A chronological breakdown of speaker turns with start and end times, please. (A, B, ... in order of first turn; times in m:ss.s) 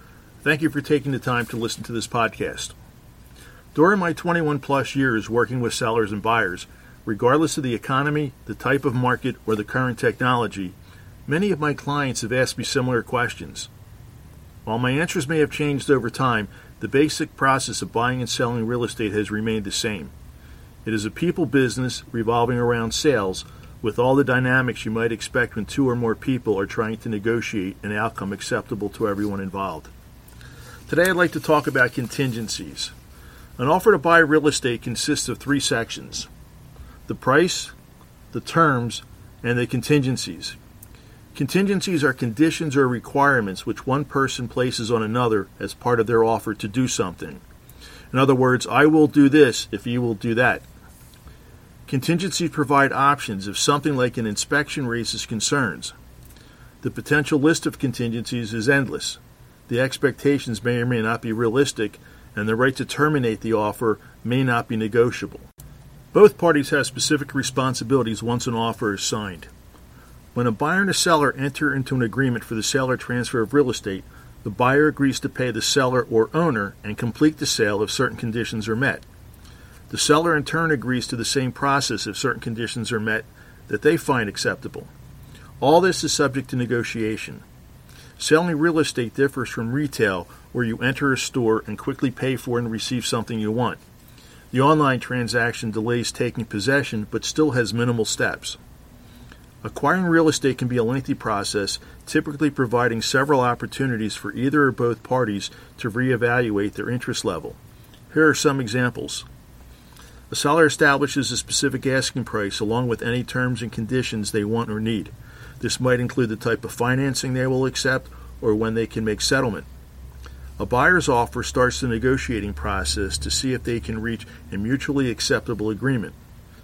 0:00.4-0:02.7 A
0:03.7-0:13.7 A
0:14.6-0:20.1 A
0:20.8-0:29.9 A
0:30.9-0:32.9 A
0:33.6-0:36.3 A
0:37.1-0:37.7 A
0:38.3-0:40.6 A
0:41.3-0:47.4 A
0:48.1-0:50.6 A
0:51.9-0:55.9 A
0:56.8-1:05.5 A
1:06.1-1:09.5 A
1:10.3-1:19.0 A
1:19.9-1:24.9 A
1:25.6-1:27.4 A
1:28.2-1:33.8 A
1:34.5-1:38.6 A
1:39.6-1:47.6 A
1:48.1-1:49.2 A
1:50.3-1:59.7 A
2:00.6-2:06.1 A